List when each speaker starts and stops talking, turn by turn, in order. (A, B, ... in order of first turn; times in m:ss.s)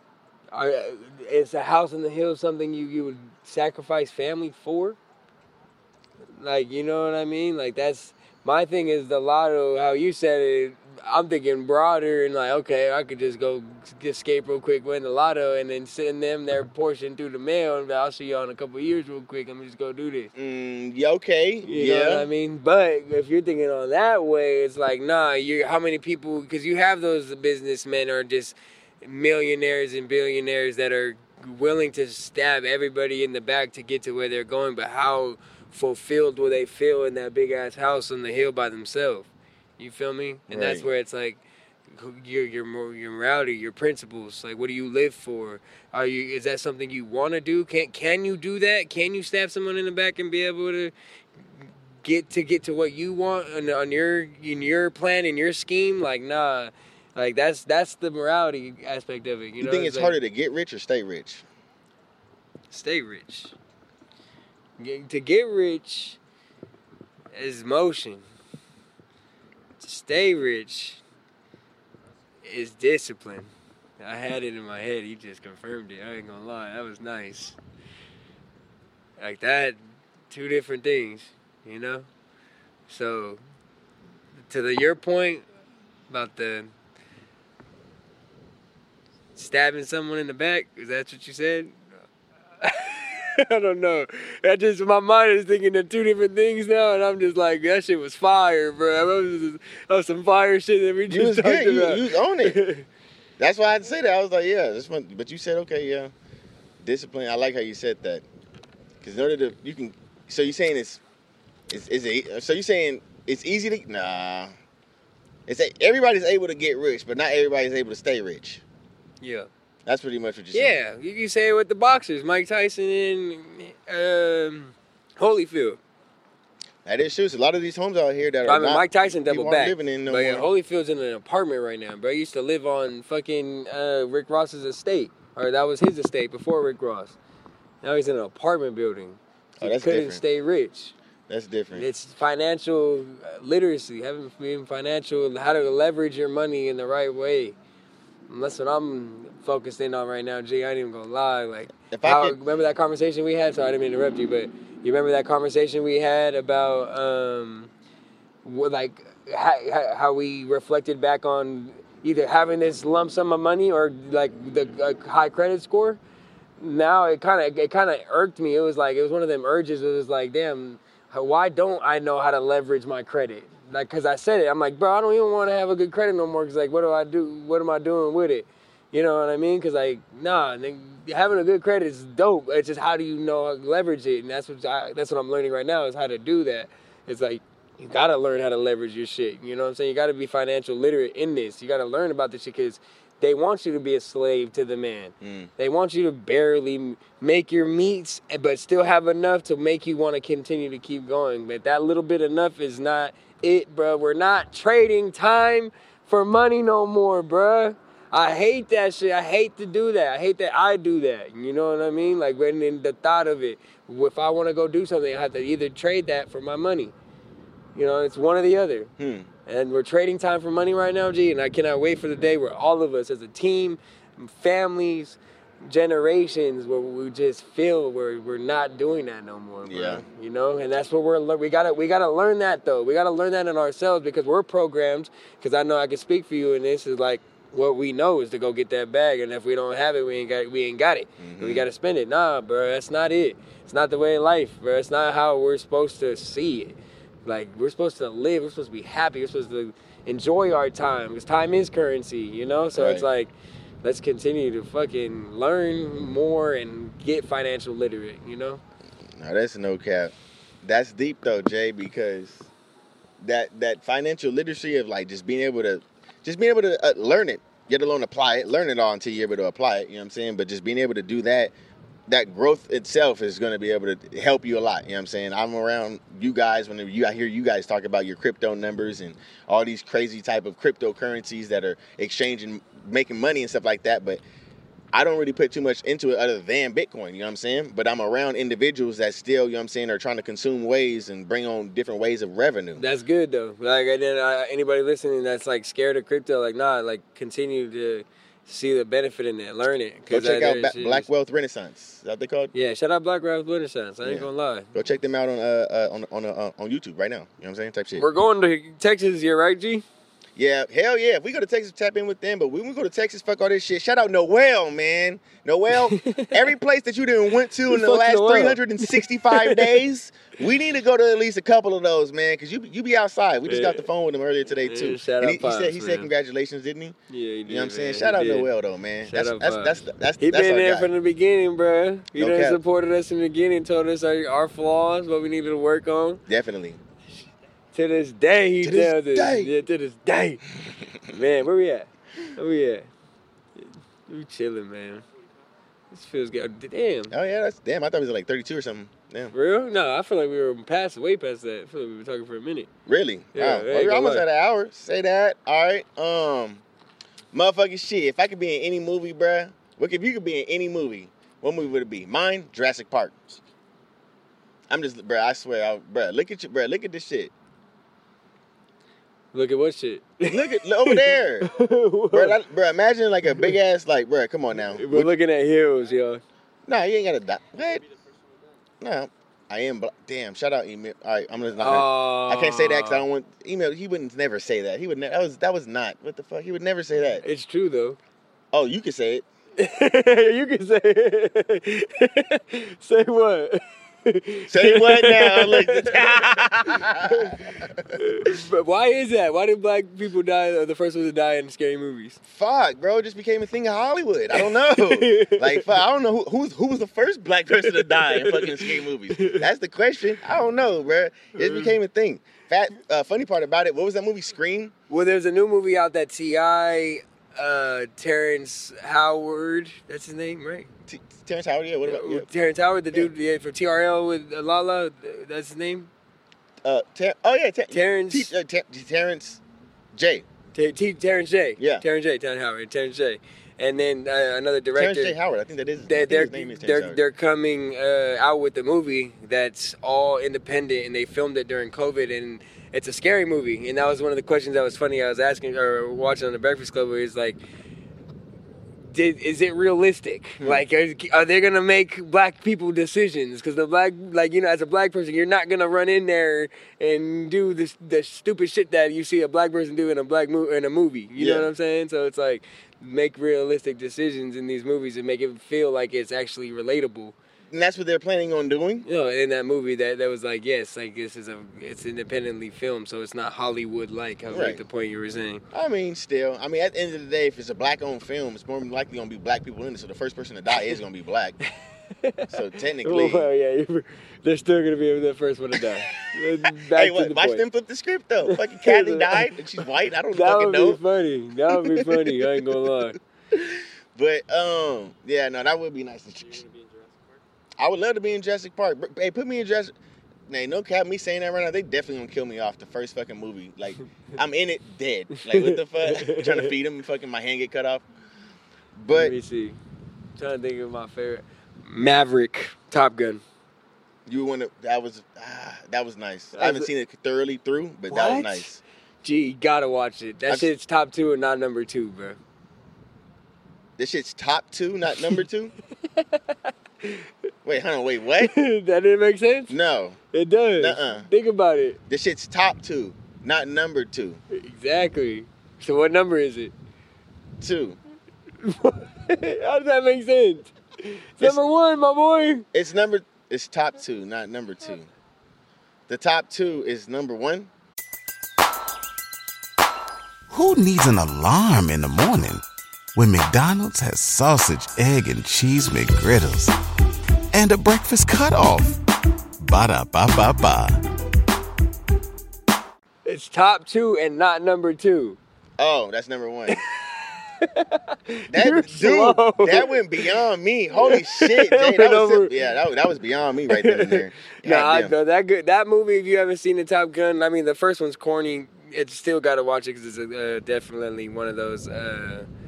0:00.5-0:05.0 A
0:06.4-0:20.3 A
0:20.4-0:22.3 B
0:21.7-0:50.9 A
0:40.5-0:40.9 B
0:52.0-1:00.2 A
0:59.6-1:01.4 B
1:02.7-1:03.6 A
1:04.8-1:06.2 A
1:07.3-1:08.2 A
1:09.8-1:11.0 A
1:12.4-1:17.6 A
1:19.2-1:19.8 A
1:20.3-1:22.1 A
1:22.9-1:23.4 A
1:24.5-1:25.4 A
1:26.1-1:26.7 A
1:29.4-1:31.8 A
1:32.6-1:42.8 A
1:41.1-1:42.6 B
1:43.4-1:46.1 B
1:46.8-1:48.2 B
1:49.0-1:51.0 B
1:51.7-1:54.5 B
1:55.5-1:58.6 B
1:59.2-1:59.5 A
1:59.9-2:00.8 B
2:00.5-2:05.8 A
2:06.8-2:10.5 B
2:08.4-2:17.2 A
2:17.8-2:21.0 A
2:19.6-2:20.2 B
2:21.3-2:21.9 B
2:21.7-2:27.6 A
2:28.3-2:37.7 A
2:31.9-2:32.4 B
2:38.4-2:46.0 A
2:46.6-3:36.9 A
3:15.2-3:15.5 B
3:37.8-3:38.9 A
3:39.0-3:39.3 B
3:39.5-4:13.3 A
3:49.6-3:50.0 B
4:01.2-4:01.7 B
4:12.8-4:13.1 B
4:13.8-4:18.6 A
4:19.2-4:22.5 B
4:23.2-4:31.5 B
4:32.1-4:44.2 B
4:44.9-4:52.8 B
4:52.8-5:01.1 A
5:00.1-5:02.5 B
5:02.5-5:04.7 A
5:04.0-5:08.1 B
5:08.0-5:09.8 A
5:10.4-5:30.9 B
5:15.8-5:16.4 A
5:17.7-5:19.8 A
5:23.5-5:23.9 A
5:24.6-5:26.1 A
5:27.1-5:28.5 A
5:29.0-5:36.2 A
5:32.2-5:32.6 B
5:36.3-5:36.8 B
5:37.7-5:40.4 A
5:38.6-5:39.5 B
5:41.1-5:42.9 A
5:43.6-5:45.0 A
5:45.9-5:47.2 A
5:47.1-5:49.3 B
5:49.3-5:52.7 A
5:52.9-5:56.6 B
5:53.4-5:54.2 A
5:57.3-6:03.4 B
6:04.7-6:07.3 B
6:09.3-6:12.4 A
6:10.3-6:11.5 B
6:12.1-6:15.1 B
6:14.7-6:16.2 A
6:16.7-6:17.8 B
6:18.8-6:27.2 B
6:21.6-6:23.0 A
6:27.2-6:28.0 A
6:28.5-6:29.2 B
6:29.6-6:42.2 A
6:34.5-6:38.0 B
6:42.2-6:54.7 B
6:44.3-6:45.8 A
6:47.6-6:49.4 A
6:51.4-6:51.8 A
6:54.9-7:00.7 A
7:00.9-7:02.3 B
7:01.8-7:05.9 A
7:06.6-7:09.4 B
7:07.7-7:08.3 A
7:09.9-7:10.3 B
7:10.5-7:15.2 A
7:11.6-7:11.8 B
7:14.8-7:17.0 B
7:15.9-7:27.4 A
7:28.8-7:47.2 A
7:41.2-7:41.5 B
7:47.5-7:48.9 B
7:48.8-7:55.4 A
7:54.3-7:54.6 B
7:55.5-8:01.4 B
8:02.0-8:07.4 A
8:02.3-8:03.3 B
8:05.5-8:10.8 B
8:08.3-8:09.3 A
8:10.1-8:13.0 A
8:11.5-8:16.4 B
8:17.6-8:19.7 B
8:20.3-8:27.8 B
8:25.1-8:26.5 A
8:28.8-8:29.2 B
8:28.9-8:29.6 A
8:30.2-8:33.2 A
8:34.1-8:38.6 B
8:36.3-8:36.7 A
8:37.9-8:38.5 A
8:39.0-8:42.2 A
8:43.8-8:45.5 B
8:45.9-8:47.1 A
8:47.4-8:48.3 B
8:48.2-8:49.5 A
8:49.5-8:50.0 B
8:50.1-8:51.8 A
8:50.6-8:51.1 B
8:51.9-8:54.2 B
8:54.3-8:56.5 A
8:57.4-8:57.8 B
8:58.4-9:02.5 A
9:02.5-9:04.9 B
9:05.9-9:07.5 B
9:10.3-9:12.4 C
9:13.0-9:16.5 C
9:17.3-9:18.8 C
9:19.4-9:20.8 C
9:23.0-9:25.2 A
9:25.6-9:26.6 B
9:26.5-9:30.2 A
9:28.3-9:34.9 B
9:30.8-9:32.3 A
9:33.5-9:42.3 A